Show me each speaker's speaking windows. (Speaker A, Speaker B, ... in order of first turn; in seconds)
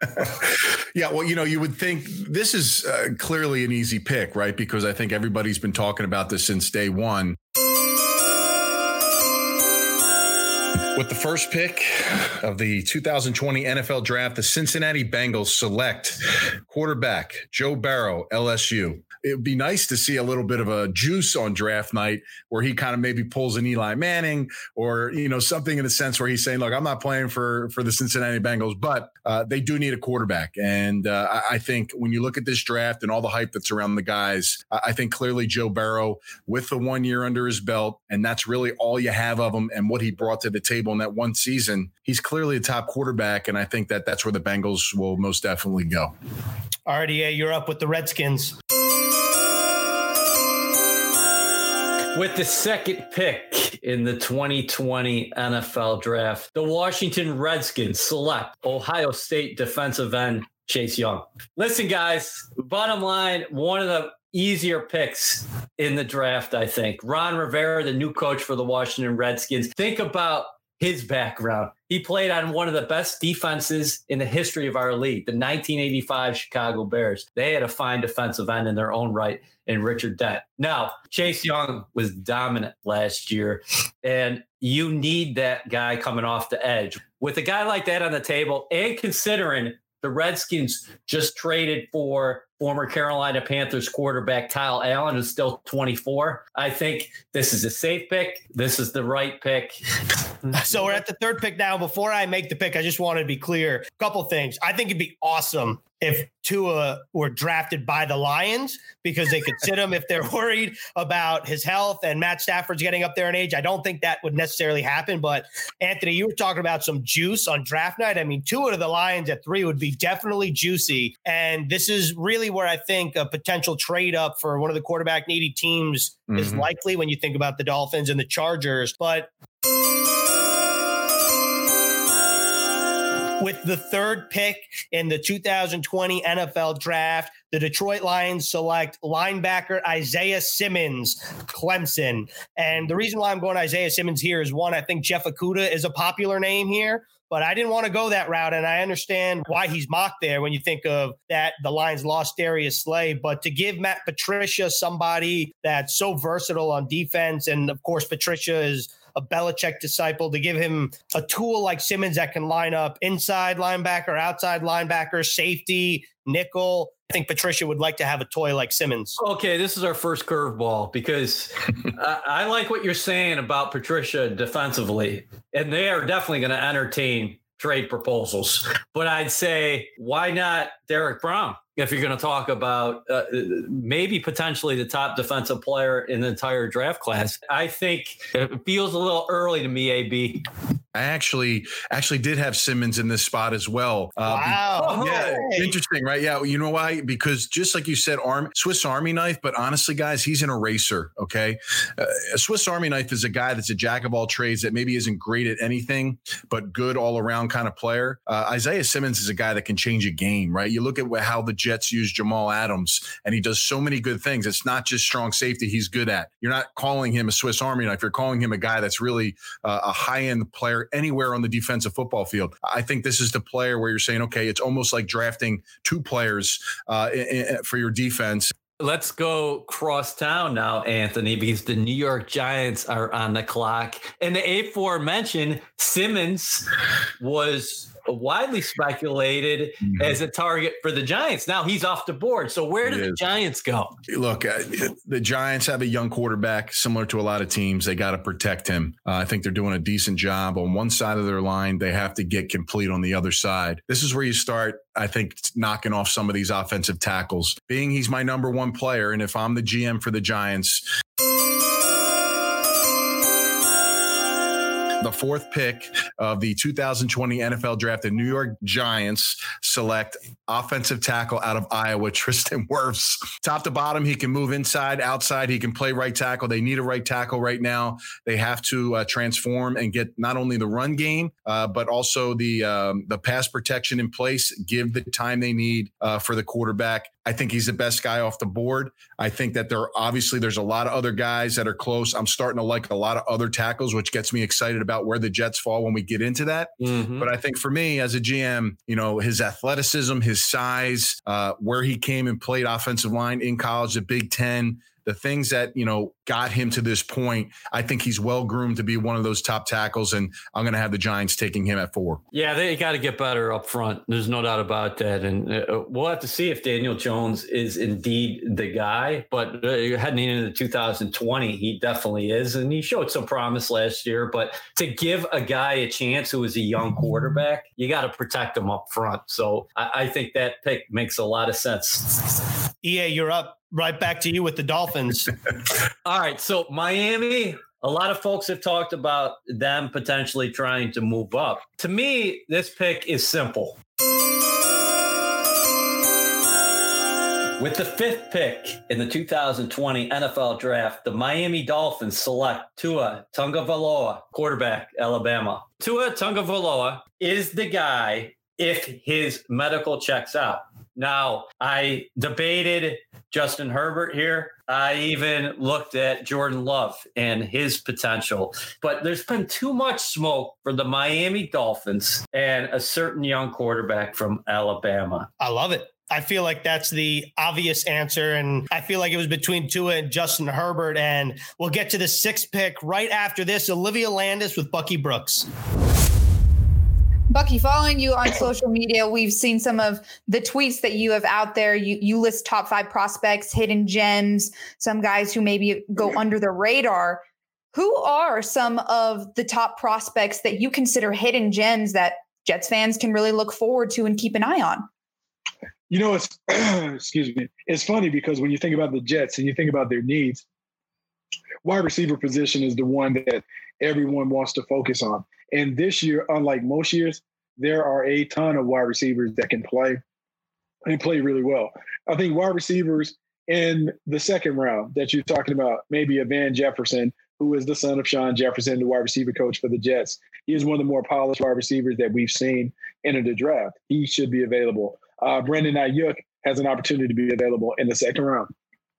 Speaker A: 0.1-7.4, 10.9-46.1, 126.3-126.6, 190.9-228.5, 242.8-243.2, 244.1-260.9, 265.0-312.2
Speaker B: 46.9-48.6, 100.5-129.3, 133.4-169.2, 194.3-195.7, 332.8-335.3, 375.4-385.5
Speaker C: 52.1-99.8, 169.2-190.4, 194.8-195.5, 228.8-236.7, 237.2-244.0, 296.8-297.3, 312.3-332.2, 336.0-343.8, 347.6-375.3
Speaker D: 387.3-397.2, 397.7-404.9
Speaker E: 405.9-410.4, 411.6-420.0, 420.9-438.5